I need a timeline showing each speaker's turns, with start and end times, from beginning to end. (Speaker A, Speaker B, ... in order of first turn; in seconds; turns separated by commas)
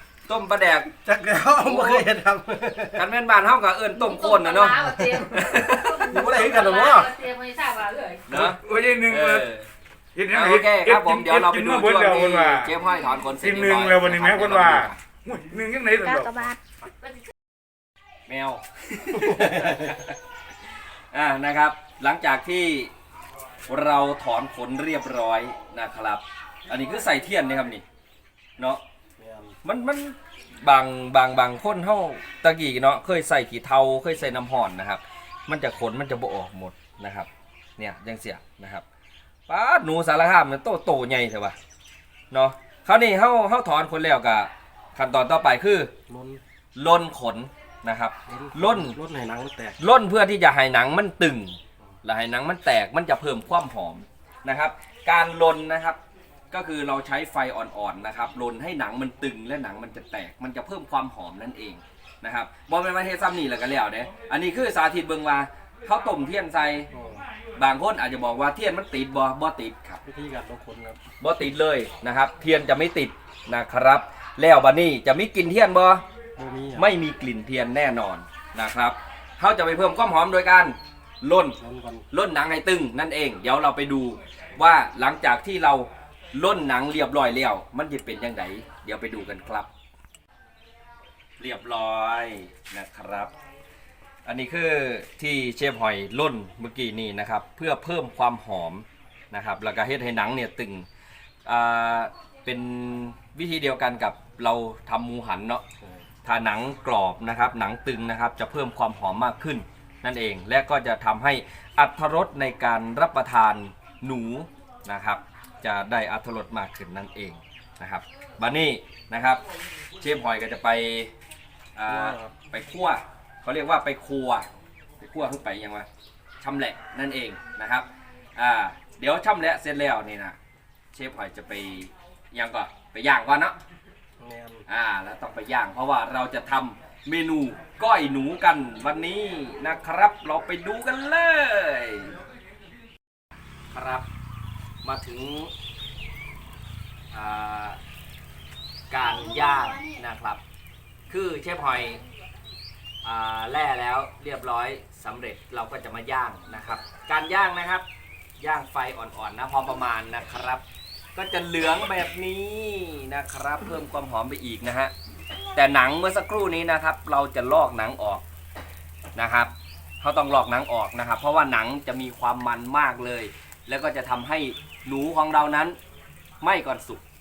Speaker A: 0.2-0.9, Speaker B: 1.0-3.0, Speaker A: 1.5-2.1, Speaker A: 2.9-6.2, Speaker C: 3.9-8.2, Speaker B: 5.0-7.1, Speaker A: 8.3-9.7, Speaker D: 8.3-9.5, Speaker D: 10.1-12.7, Speaker A: 10.3-15.0, Speaker D: 13.4-16.5, Speaker A: 18.3-20.2, Speaker B: 19.4-19.8, Speaker A: 21.1-22.9, Speaker A: 23.7-27.8, Speaker B: 29.2-29.6, Speaker A: 29.6-38.8, Speaker A: 39.5-41.5, Speaker A: 42.3-45.9, Speaker B: 46.1-46.4, Speaker A: 46.8-49.0, Speaker B: 48.3-49.8, Speaker A: 49.8-56.0, Speaker A: 56.5-66.9, Speaker B: 66.9-67.2, Speaker A: 67.5-70.0, Speaker B: 70.0-71.0, Speaker A: 71.2-76.0, Speaker B: 76.4-76.9, Speaker A: 76.8-81.6, Speaker B: 81.6-82.1, Speaker A: 82.1-89.7, Speaker A: 91.4-93.3, Speaker A: 94.2-100.8, Speaker A: 101.4-105.6, Speaker A: 106.2-119.4, Speaker A: 120.0-121.1, Speaker A: 121.8-124.5, Speaker B: 121.9-122.3, Speaker A: 125.0-125.9, Speaker A: 126.4-130.3, Speaker A: 130.9-133.5, Speaker B: 134.2-134.6, Speaker A: 134.7-142.1, Speaker A: 143.7-144.1, Speaker A: 144.8-145.5, Speaker A: 147.1-147.8, Speaker A: 148.9-150.4, Speaker A: 151.1-152.0, Speaker A: 153.0-157.8, Speaker A: 158.4-160.6, Speaker A: 161.1-164.9, Speaker A: 165.5-168.2, Speaker A: 169.2-175.8, Speaker A: 176.4-177.0